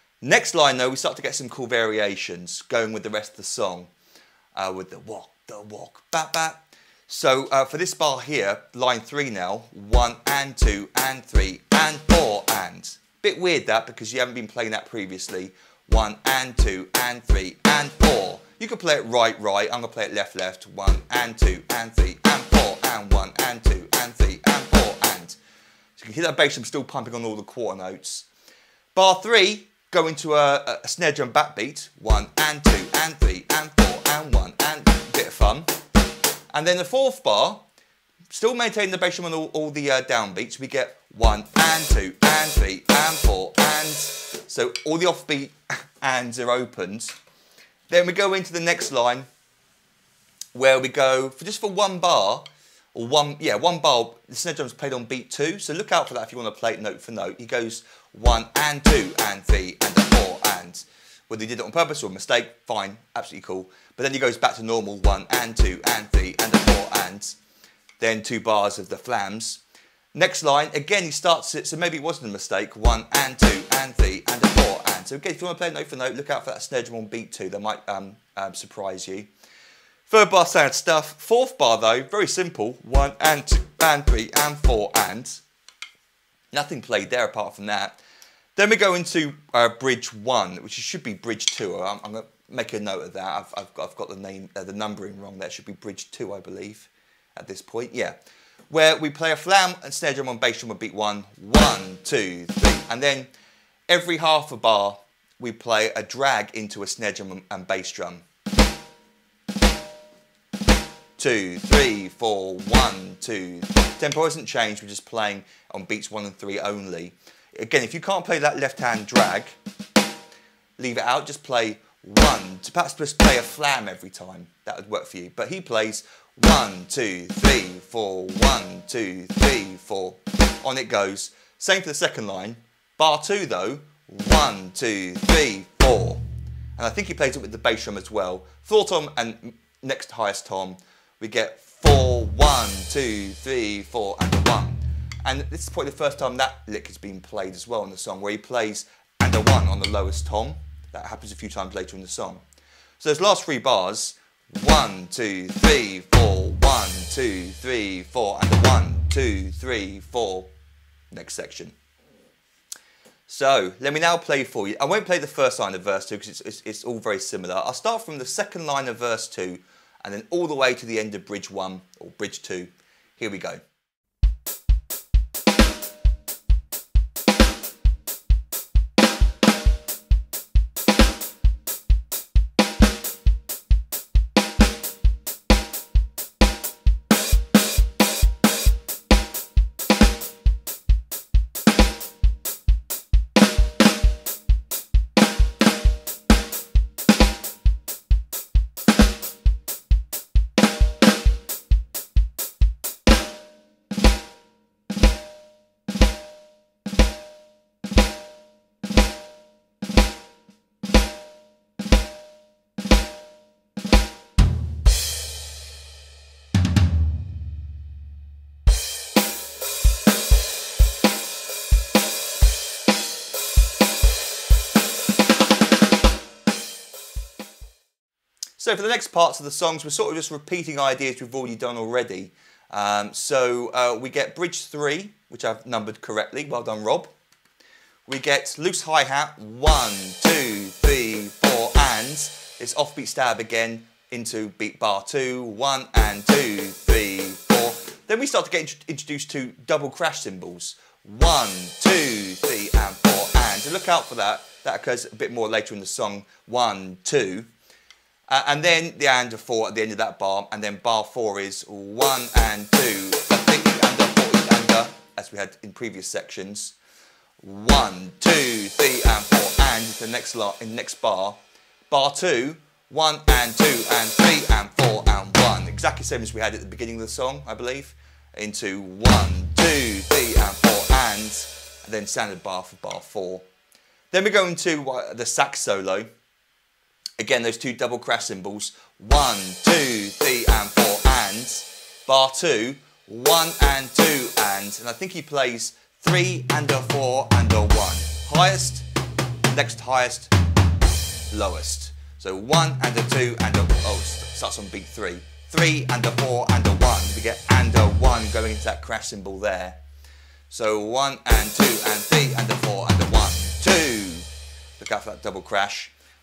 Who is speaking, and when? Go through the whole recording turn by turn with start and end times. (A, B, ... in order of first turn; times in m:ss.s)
0:00.2-0:03.9 A
0:04.5-0:25.4 A
0:26.0-0:28.3 A
0:28.9-0:35.7 A
0:36.5-0:37.6 A
0:38.3-0:47.2 A
0:47.9-0:49.3 A
0:50.5-1:07.4 A
1:08.0-1:09.6 A
1:10.1-1:19.3 A
1:20.1-1:25.4 A
1:26.5-1:28.0 A
1:28.6-1:38.2 A
1:38.7-1:43.3 A
1:43.9-1:48.2 A
1:51.2-1:59.6 A
2:00.8-2:16.2 A
2:16.8-2:32.4 A
2:33.0-2:40.5 A
2:41.1-2:41.8 A
2:43.3-2:53.6 A
3:48.6-3:57.1 A
3:58.1-4:17.5 A
4:18.3-4:26.8 A
4:27.4-4:43.4 A
4:44.1-4:46.1 A
4:47.2-4:58.9 A
4:59.4-5:00.3 A
5:01.3-5:09.8 A
5:10.5-5:14.3 A
5:14.8-5:15.9 A